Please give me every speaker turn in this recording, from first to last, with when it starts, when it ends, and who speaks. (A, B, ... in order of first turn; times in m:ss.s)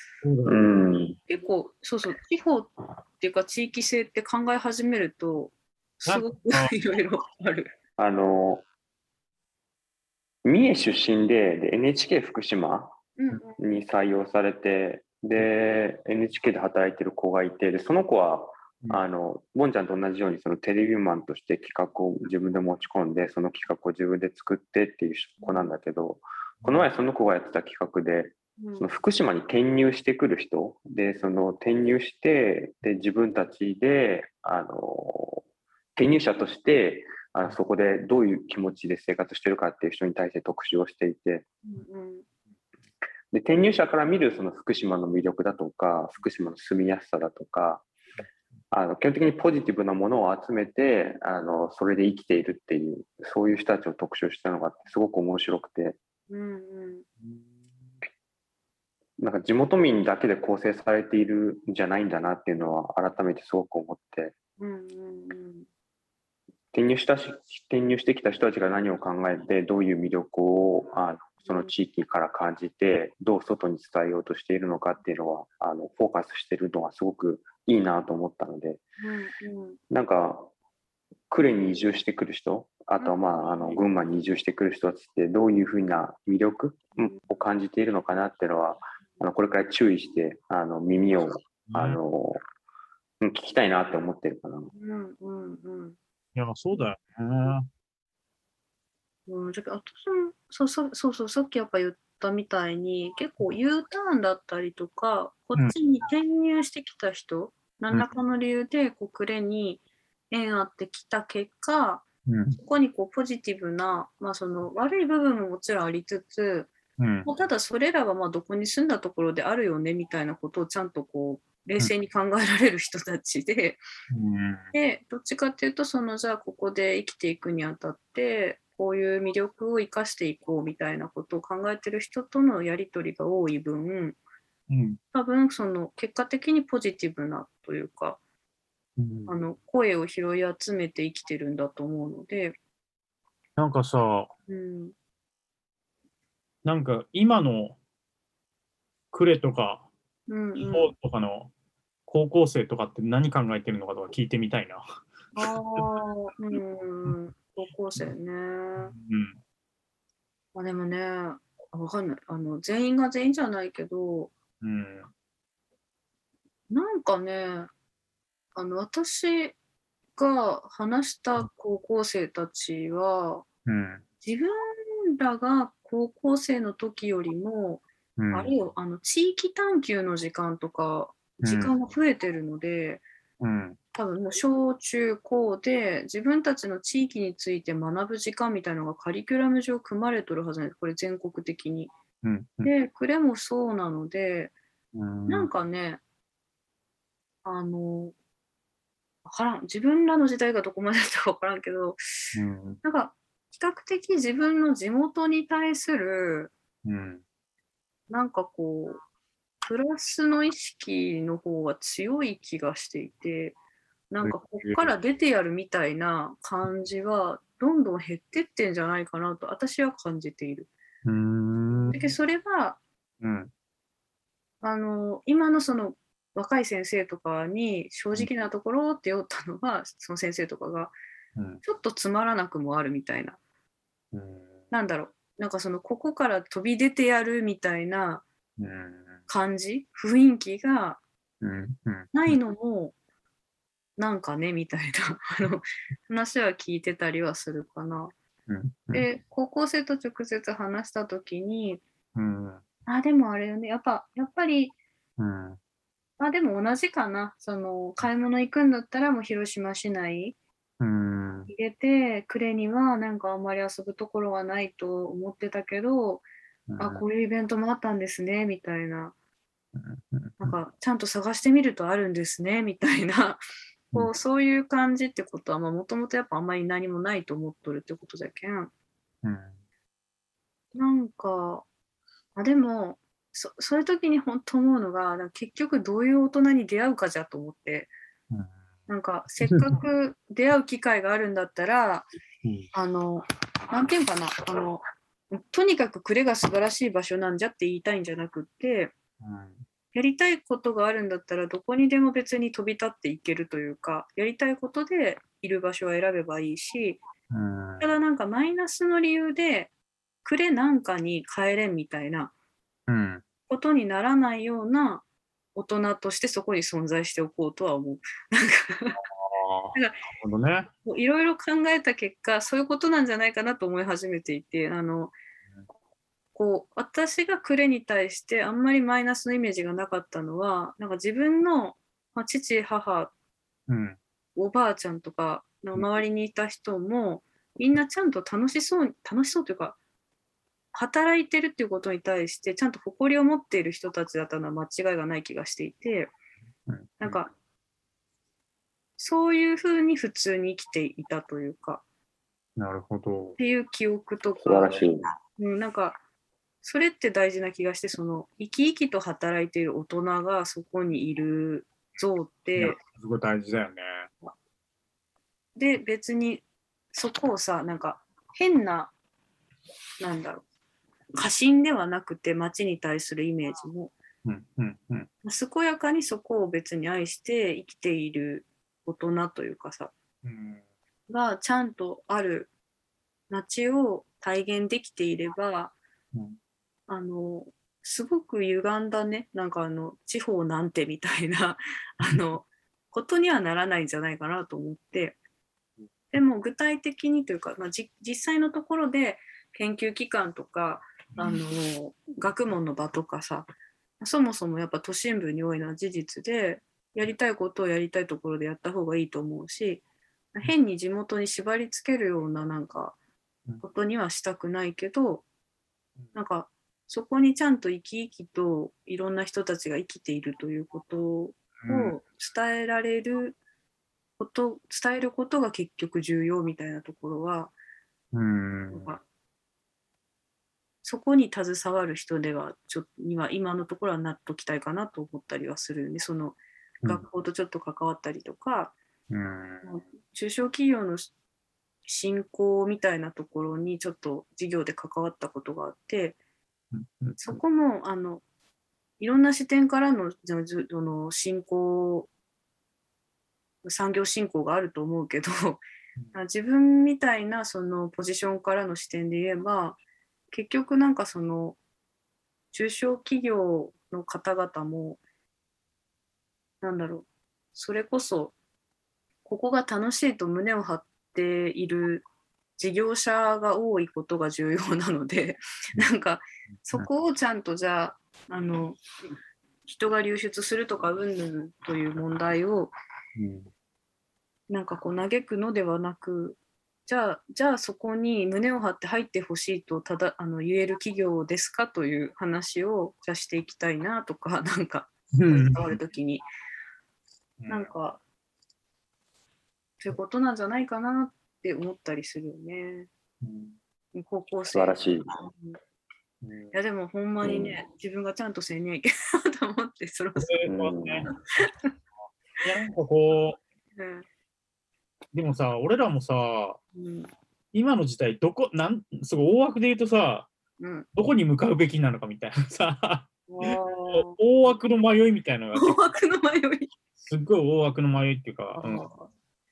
0:00.2-0:00.7 A
0:00.5-0:01.2 B
0:01.3-0:07.7 C
0:06.1-0:06.7 A
0:08.0-0:08.6 B
0:10.4-0:13.0 B
0:13.2-0:13.6 C
0:13.6-0:35.4 B
0:25.4-0:25.7 C
0:26.6-0:26.9 A
0:28.6-0:28.9 C
0:36.0-0:41.5 B
0:41.6-0:42.3 C
0:43.3-0:47.9 B
0:48.7-0:56.0 B
0:56.3-0:57.0 C
0:59.2-1:04.3 B
1:04.6-1:05.7 C
1:06.7-1:18.8 B
1:11.4-1:11.7 C
1:19.0-1:19.8 C
1:19.9-1:20.5 B
1:21.3-1:32.4 B
1:23.0-1:23.7 C
1:31.7-1:32.0 A
1:33.2-1:34.7 B
1:34.7-1:36.0 C
1:36.4-1:37.7 A
1:39.3-1:52.1 C
1:52.3-1:52.6 A
1:52.6-1:56.7 C
1:57.0-1:57.3 A
1:57.2-2:03.8 C
2:04.1-2:04.7 A
2:04.7-2:14.2 C
2:14.7-2:15.0 A
2:15.1-2:18.2 C
2:19.0-2:19.4 A
2:19.3-2:22.6 C
2:23.6-2:24.3 A
2:24.5-2:24.9 C
2:26.6-2:27.8 A
2:29.1-2:29.9 A
2:30.3-2:30.9 C
2:30.6-2:31.5 A
2:32.1-2:35.9 A
2:35.4-2:38.9 C
2:38.8-2:39.4 A
2:40.6-2:44.3 C
2:44.6-2:45.1 A
2:46.7-2:47.7 C
2:48.6-2:49.6 C
2:50.2-2:53.4 C
2:53.7-2:54.0 A
2:54.2-3:03.0 C
2:58.2-2:58.5 A
3:01.4-3:01.7 A
3:03.4-3:03.8 A
3:04.0-3:11.9 C
3:12.2-3:12.7 A
3:12.6-3:14.6 C
3:14.9-3:15.5 A
3:15.3-3:16.0 C
3:17.4-3:18.2 C
3:19.2-3:22.0 C
3:22.3-3:22.8 A
3:22.8-3:26.5 C
3:26.8-3:27.2 A
3:28.1-3:29.0 C
3:29.6-3:33.6 C
3:34.1-3:40.7 C
3:34.2-3:34.9 A
3:41.0-3:42.0 A
3:41.7-3:42.8 C
3:43.2-3:43.5 A
3:44.6-3:50.9 C
3:51.4-3:51.6 A
3:51.6-3:53.4 C
3:54.1-3:54.6 A
3:54.7-3:58.2 C
3:58.6-3:59.2 A
3:59.3-4:01.0 C
4:01.4-4:02.4 A
4:02.1-4:02.9 C
4:04.0-4:08.1 C
4:08.5-4:09.0 A
4:08.9-4:11.8 C
4:12.2-4:12.6 A
4:12.9-4:14.8 C
4:15.2-4:15.6 A
4:16.2-4:20.4 C
4:20.8-4:21.5 A
4:21.5-4:26.3 C
4:26.7-4:27.0 A
4:26.8-4:29.2 C
4:29.7-4:30.5 A
4:30.4-4:38.7 C
4:39.2-4:39.6 A
4:40.8-4:41.6 C
4:42.4-4:47.9 C
4:48.9-4:52.1 C
4:49.5-4:49.8 A
4:52.4-4:52.7 A
4:52.7-4:58.9 C
4:59.2-4:59.6 A
4:59.9-5:07.0 C
5:07.3-5:07.9 A
5:07.8-5:09.7 C
5:10.2-5:12.3 C
5:12.9-5:13.2 A
5:13.5-5:15.0 C
5:15.6-5:19.0 C
5:19.0-5:20.7 A
5:19.7-5:20.0 C
5:20.8-5:25.2 C
5:26.3-5:33.1 C
5:33.7-5:34.0 A
5:34.4-5:39.8 C
5:40.7-5:46.1 C
5:46.7-5:47.2 A
5:47.0-5:47.3 C
5:49.0-5:51.8 C
5:52.6-5:53.4 A
5:53.4-5:56.0 C
5:54.4-5:55.1 B
5:56.6-6:02.8 C
6:02.6-6:04.1 A
6:05.6-6:08.9 C
6:10.0-6:10.4 C
6:11.2-6:13.9 C
6:14.2-6:15.1 A
6:15.2-6:19.9 C
6:20.2-6:20.6 A
6:21.1-6:22.5 C
6:23.3-6:25.8 C
6:26.9-6:35.2 C
6:36.1-6:53.0 C
6:53.6-6:55.2 C
6:56.2-7:03.4 C
7:01.6-7:02.0 A
7:04.2-7:07.5 C
7:08.1-7:08.9 A
7:08.7-7:09.0 C
7:10.8-7:18.8 C
7:19.1-7:19.7 A
7:19.6-7:21.1 C
7:21.9-7:26.2 C
7:26.7-7:27.4 A
7:27.2-7:28.2 C
7:29.0-7:32.1 C
7:33.6-7:39.8 C
7:40.3-7:41.6 C
7:42.5-7:45.0 C
7:46.6-7:48.4 C
7:49.2-7:52.0 C
7:52.6-7:58.8 C
7:59.6-8:02.7 C
8:03.2-8:03.5 A
8:04.5-8:16.2 C
8:15.2-8:15.7 A
8:17.4-8:17.7 A
8:17.5-8:18.0 C
8:19.8-8:22.9 C
8:23.2-8:23.6 A
8:23.9-8:25.6 C
8:24.5-8:25.1 B
8:26.2-8:26.5 A
8:26.5-8:30.4 C
8:27.2-8:27.6 B
8:30.2-8:31.1 A
8:30.5-8:31.1 B
8:31.4-8:31.7 C
8:32.4-8:33.4 A
8:33.8-8:34.1 C
8:35.1-8:36.6 A
8:36.8-8:37.1 C
8:37.5-8:40.3 A
8:40.6-8:40.9 C
8:41.0-8:45.9 A
8:43.3-8:44.2 C
8:45.6-8:46.7 C
8:47.1-8:48.8 A
8:48.6-8:49.1 C